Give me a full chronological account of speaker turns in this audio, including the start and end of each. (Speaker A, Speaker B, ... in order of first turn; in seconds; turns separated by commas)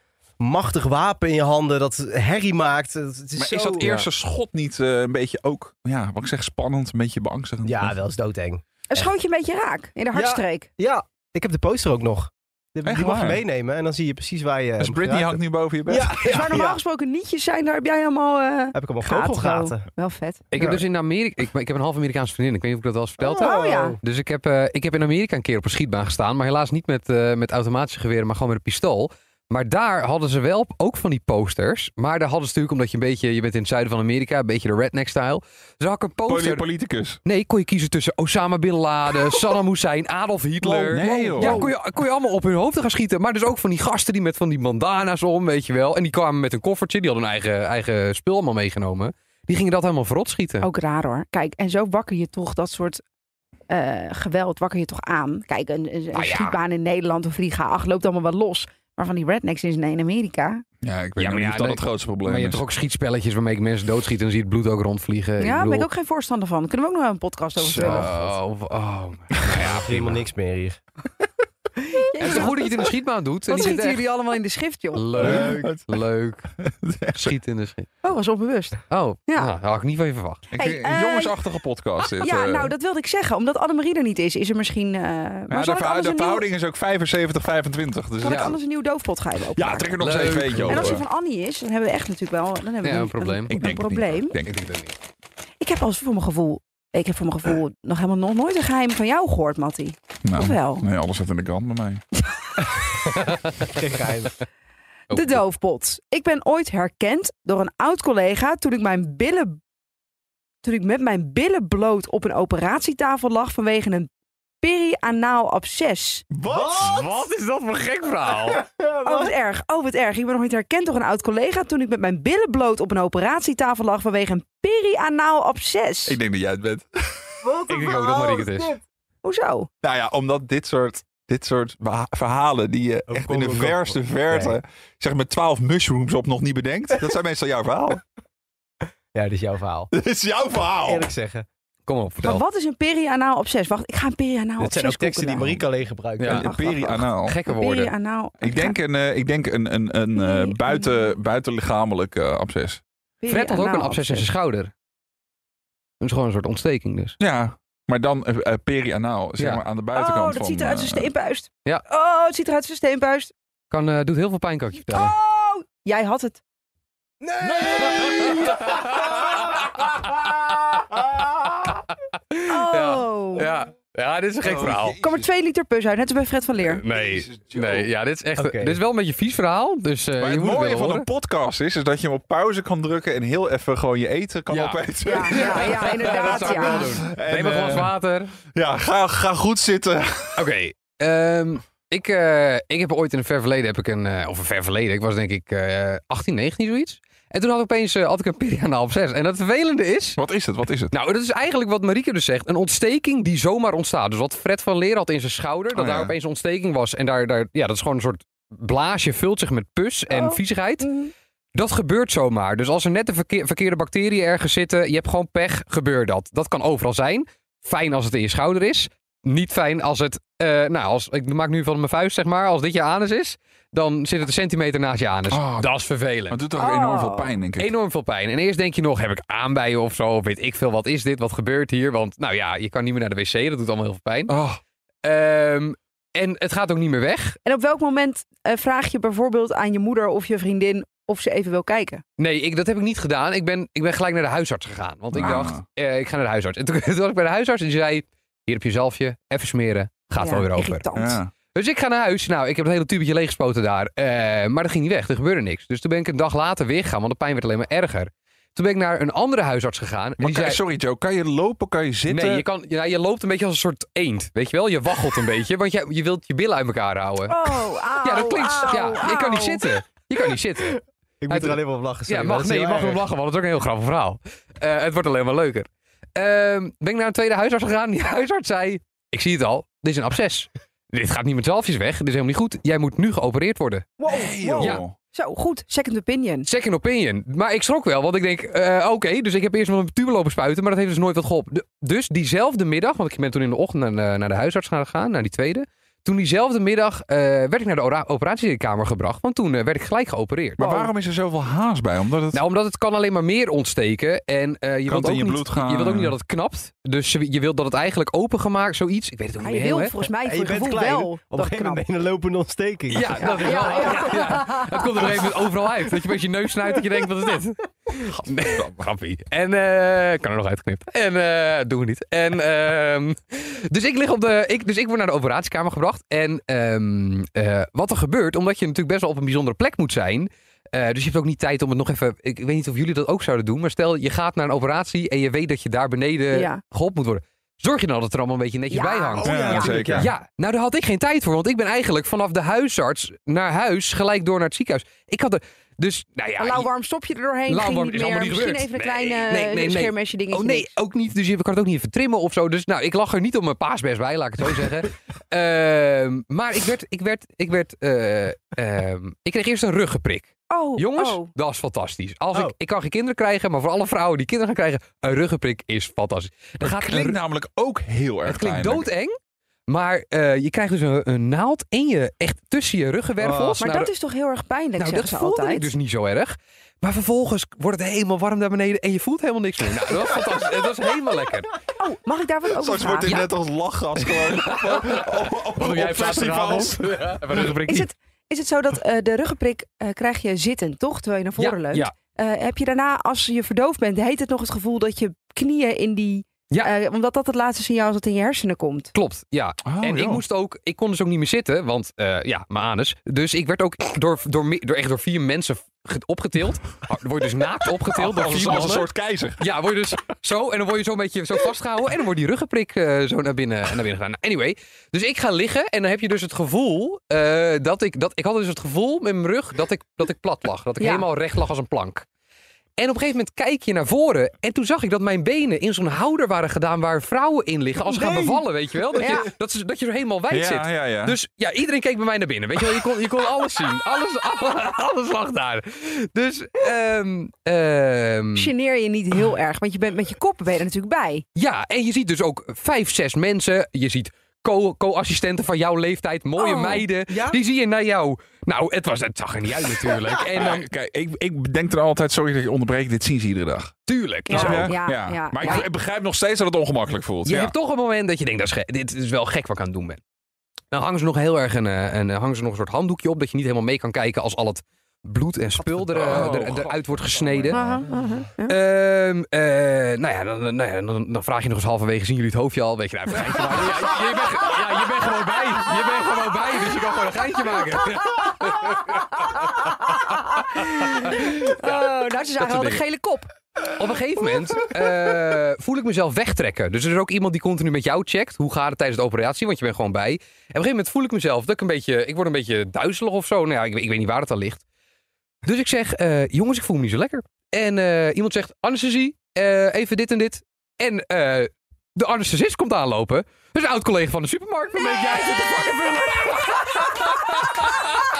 Speaker A: 0.4-4.0, Speaker B: 3.4-8.0, Speaker C: 3.8-4.1, Speaker A: 7.6-9.1, Speaker D: 8.9-10.7, Speaker A: 10.1-16.8, Speaker B: 12.8-13.4, Speaker B: 14.8-16.6, Speaker D: 16.2-20.4, Speaker A: 18.7-19.9, Speaker C: 20.5-36.6, Speaker A: 20.5-20.8, Speaker A: 23.2-24.0, Speaker D: 23.3-24.0, Speaker B: 36.2-37.2, Speaker C: 37.2-50.7, Speaker B: 40.6-41.7, Speaker D: 41.4-41.7, Speaker D: 50.6-53.0, Speaker D: 53.7-60.6, Speaker C: 56.1-56.6, Speaker B: 60.8-62.6, Speaker C: 61.2-65.9, Speaker D: 65.4-68.2, Speaker C: 67.7-70.2, Speaker A: 67.7-68.3, Speaker A: 69.6-70.8, Speaker D: 71.8-72.7, Speaker C: 72.2-74.0, Speaker D: 73.5-75.0, Speaker C: 74.9-76.5, Speaker B: 75.2-76.0, Speaker A: 75.2-75.7, Speaker B: 76.6-77.3, Speaker C: 77.1-77.9, Speaker D: 78.0-79.5, Speaker C: 78.9-80.4, Speaker B: 80.5-82.7, Speaker D: 80.6-81.4, Speaker D: 82.2-86.5, Speaker B: 85.5-88.5, Speaker D: 88.2-90.0, Speaker C: 88.2-88.5, Speaker B: 89.5-91.0, Speaker C: 90.0-91.0, Speaker D: 90.6-94.3, Speaker C: 92.8-93.6, Speaker B: 93.5-94.7, Speaker C: 94.4-95.0, Speaker D: 95.6-100.9, Speaker B: 100.2-102.0, Speaker C: 103.3-103.6, Speaker A: 103.6-104.3, Speaker C: 105.1-105.4, Speaker D: 105.1-109.6, Speaker D: 110.6-114.1, Speaker D: 114.6-116.2, Speaker B: 116.3-117.1, Speaker A: 116.5-117.0, Speaker C: 116.8-118.6, Speaker A: 118.5-119.3, Speaker D: 119.0-126.2, Speaker B: 126.1-127.5, Speaker A: 127.4-128.8, Speaker C: 127.7-128.8, Speaker D: 129.2-129.7, Speaker B: 129.8-138.0, Speaker A: 133.1-134.6, Speaker A: 139.1-139.9, Speaker B: 139.9-141.1, Speaker A: 140.8-141.4, Speaker C: 141.8-142.4, Speaker D: 142.2-145.6, Speaker A: 144.6-146.5, Speaker C: 146.2-146.5, Speaker B: 146.3-147.4, Speaker D: 146.3-148.8, Speaker C: 147.2-147.9, Speaker B: 148.4-152.8, Speaker D: 150.1-150.9, Speaker D: 153.2-154.3, Speaker C: 153.3-154.7, Speaker C: 156.0-157.2, Speaker B: 157.2-161.1, Speaker D: 159.9-163.3, Speaker C: 163.7-165.2, Speaker D: 164.8-166.4, Speaker A: 167.2-169.4, Speaker B: 167.5-168.5, Speaker C: 167.7-170.8, Speaker C: 171.6-174.9, Speaker D: 172.5-173.5, Speaker B: 174.4-175.2, Speaker D: 175.0-176.8, Speaker C: 176.7-181.1, Speaker B: 176.9-177.9, Speaker A: 178.4-178.8, Speaker B: 180.2-187.9, Speaker C: 184.5-188.3, Speaker D: 185.0-186.9, Speaker B: 188.5-190.5, Speaker C: 190.3-200.2, Speaker B: 200.2-200.9, Speaker C: 200.9-210.9, Speaker B: 205.7-206.1, Speaker D: 210.1-211.1, Speaker C: 211.5-226.4, Speaker B: 225.3-225.7, Speaker B: 226.3-227.7, Speaker D: 226.6-227.3, Speaker C: 227.6-234.3, Speaker B: 234.3-234.6, Speaker C: 235.0-237.4, Speaker D: 237.4-242.0, Speaker C: 242.2-250.8, Speaker B: 245.1-245.6, Speaker D: 250.2-251.2, Speaker B: 250.9-251.3, Speaker C: 251.5-260.6, Speaker B: 260.2-262.4, Speaker C: 262.1-283.9, Speaker D: 267.3-269.6, Speaker A: 271.2-273.0, Speaker D: 284.0-286.5, Speaker B: 284.1-284.9, Speaker C: 284.6-284.8, Speaker C: 286.4-300.7, Speaker B: 300.6-302.4, Speaker C: 302.3-309.9, Speaker B: 304.8-306.1, Speaker D: 309.4-311.8, Speaker A: 310.2-314.0, Speaker C: 312.9-346.7, Speaker D: 313.2-315.0, Speaker D: 336.3-336.6, Speaker D: 338.7-339.7, Speaker A: 339.2-340.1, Speaker B: 339.2-340.1, Speaker D: 346.4-350.7, Speaker C: 347.5-367.2, Speaker D: 360.5-361.3, Speaker B: 366.6-368.9, Speaker C: 368.2-369.1, Speaker C: 369.7-373.9, Speaker B: 373.2-373.6, Speaker D: 373.6-375.7, Speaker C: 374.8-381.5, Speaker D: 381.8-383.2, Speaker B: 382.6-387.2, Speaker C: 384.0-387.9, Speaker D: 387.6-398.9, Speaker C: 391.4-391.9, Speaker C: 398.9-422.0, Speaker B: 399.6-400.2, Speaker B: 407.9-409.4, Speaker D: 420.8-421.0, Speaker C: 422.8-438.5, Speaker A: 427.9-428.3, Speaker D: 429.0-429.3, Speaker B: 430.3-431.1, Speaker D: 438.3-441.2, Speaker C: 441.4-450.7, Speaker D: 446.4-446.9, Speaker A: 447.1-447.4, Speaker B: 450.0-453.7, Speaker C: 453.9-454.8, Speaker B: 454.3-457.5, Speaker D: 454.3-455.7, Speaker C: 457.2-460.0, Speaker C: 460.7-467.6, Speaker B: 465.7-467.9, Speaker D: 467.5-468.6, Speaker C: 468.5-479.8, Speaker D: 479.7-483.3, Speaker C: 480.6-481.8, Speaker C: 482.4-482.8, Speaker C: 483.8-494.6, Speaker C: 495.4-507.8, Speaker D: 504.9-507.0